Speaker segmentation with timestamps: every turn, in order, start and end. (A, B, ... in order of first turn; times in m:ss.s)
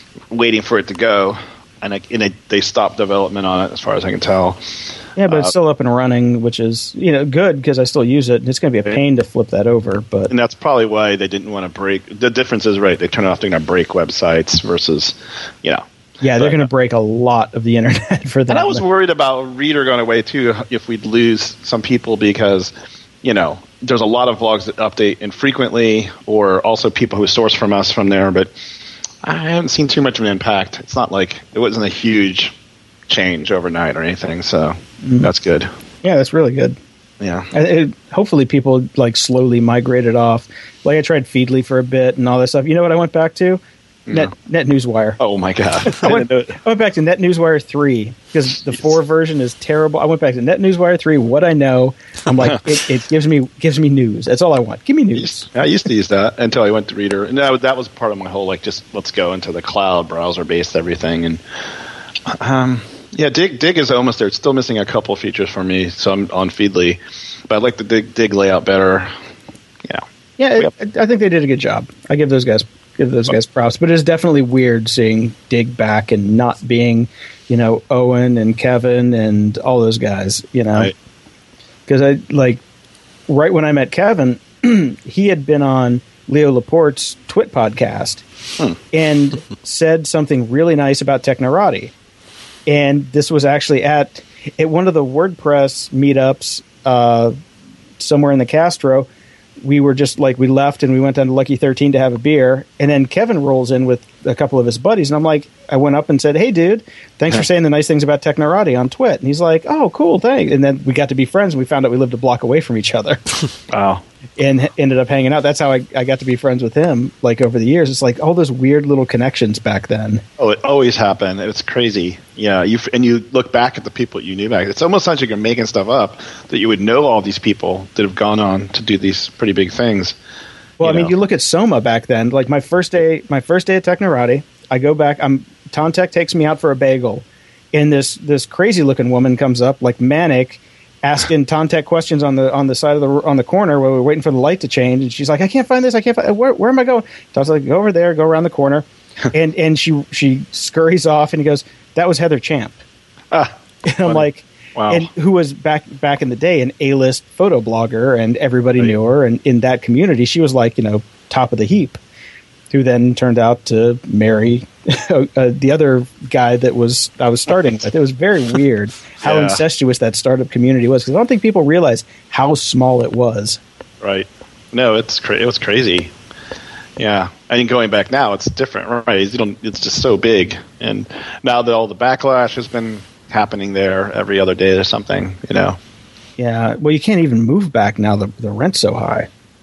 0:00.3-0:04.6 A
0:05.2-0:10.3 B
0:10.3-0:15.8 A
0:16.2-0:18.8 B
0:18.5-0:28.5 A
0:29.2-0:32.5 A
0:33.1-0:35.7 A
0:35.0-0:35.3 B
0:36.0-0:36.8 B
0:37.2-0:37.5 A
0:37.5-0:45.2 B
0:45.2-0:46.6 A
0:45.9-0:55.5 B
0:55.2-1:01.4 A
1:02.3-1:09.1 A
1:10.4-1:20.9 B
1:21.9-1:22.6 B
1:23.3-1:28.2 B
1:28.9-1:31.9 B
1:32.7-1:37.4 B
1:38.0-1:39.1 B
1:39.6-1:53.2 B
1:53.7-1:54.0 A
1:54.4-2:00.2 B
2:00.4-2:10.2 A
2:10.8-2:32.8 B
2:10.8-2:11.1 A
2:33.8-2:42.0 B
2:34.8-2:35.1 A
2:42.7-2:53.6 B
2:49.2-2:49.6 A
2:54.0-2:56.1 A
2:57.0-3:05.8 A
3:06.4-3:09.3 B